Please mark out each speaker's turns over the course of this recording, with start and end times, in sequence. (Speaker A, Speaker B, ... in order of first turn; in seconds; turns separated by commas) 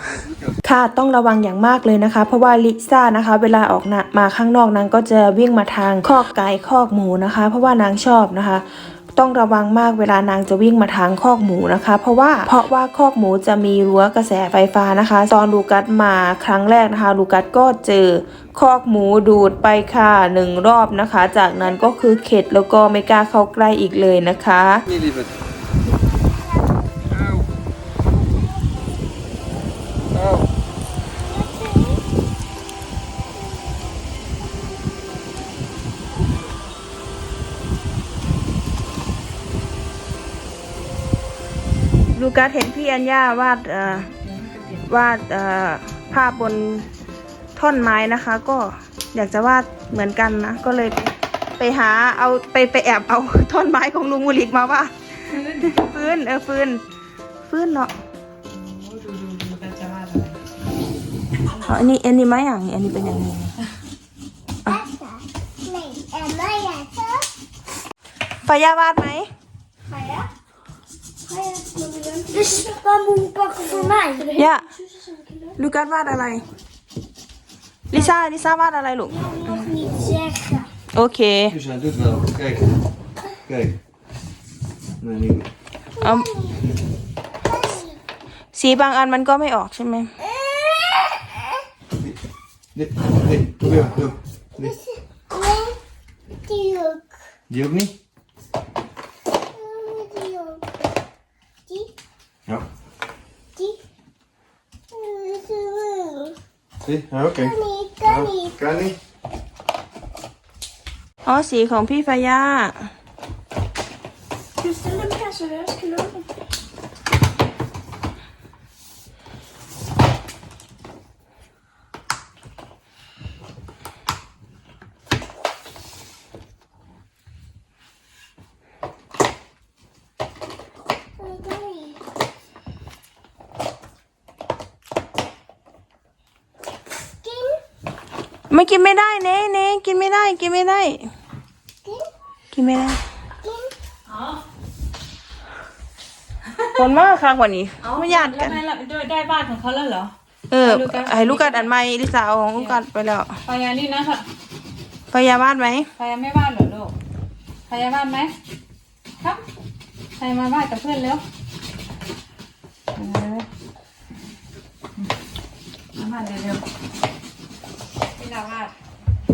Speaker A: 0.6-24.8, Speaker B: 26.5-26.9, Speaker B: 28.1-28.9, Speaker B: 31.3-32.0, Speaker A: 42.1-44.1, Speaker C: 43.9-44.9, Speaker A: 44.9-46.9, Speaker A: 47.6-54.9, Speaker C: 55.3-56.2, Speaker A: 55.7-56.8, Speaker A: 57.4-57.9, Speaker C: 58.5-60.4, Speaker C: 61.5-61.7, Speaker A: 61.6-63.5, Speaker B: 64.7-67.3, Speaker A: 68.4-69.3, Speaker B: 69.9-70.3, Speaker B: 71.3-75.6, Speaker A: 74.3-74.7, Speaker A: 75.6-76.5, Speaker A: 77.9-79.7, Speaker B: 79.1-80.7, Speaker A: 80.9-81.6, Speaker D: 81.5-82.6, Speaker D: 83.5-83.8, Speaker D: 85.0-85.5, Speaker B: 86.0-86.7, Speaker A: 86.0-86.3, Speaker B: 87.4-88.0, Speaker A: 88.5-90.1, Speaker B: 90.2-91.6, Speaker D: 92.8-94.2, Speaker B: 94.6-95.8, Speaker B: 96.4-97.2, Speaker D: 97.5-97.9, Speaker B: 99.5-100.6, Speaker B: 104.9-106.4, Speaker D: 106.9-107.5, Speaker B: 107.3-108.5, Speaker D: 108.7-109.0, Speaker A: 111.2-112.9, Speaker B: 114.6-116.3, Speaker B: 131.2-132.0, Speaker B: 137.2-137.6, Speaker A: 138.5-141.1, Speaker B: 141.8-142.1, Speaker A: 142.5-143.0, Speaker B: 143.4-143.8, Speaker C: 144.1-144.4, Speaker A: 146.8-148.6, Speaker C: 147.8-151.7, Speaker A: 150.5-153.4, Speaker C: 153.4-154.3, Speaker A: 155.1-155.9, Speaker C: 156.0-156.9, Speaker C: 157.7-158.3, Speaker C: 160.2-161.2, Speaker C: 162.9-163.5, Speaker C: 165.9-166.6, Speaker C: 168.2-168.7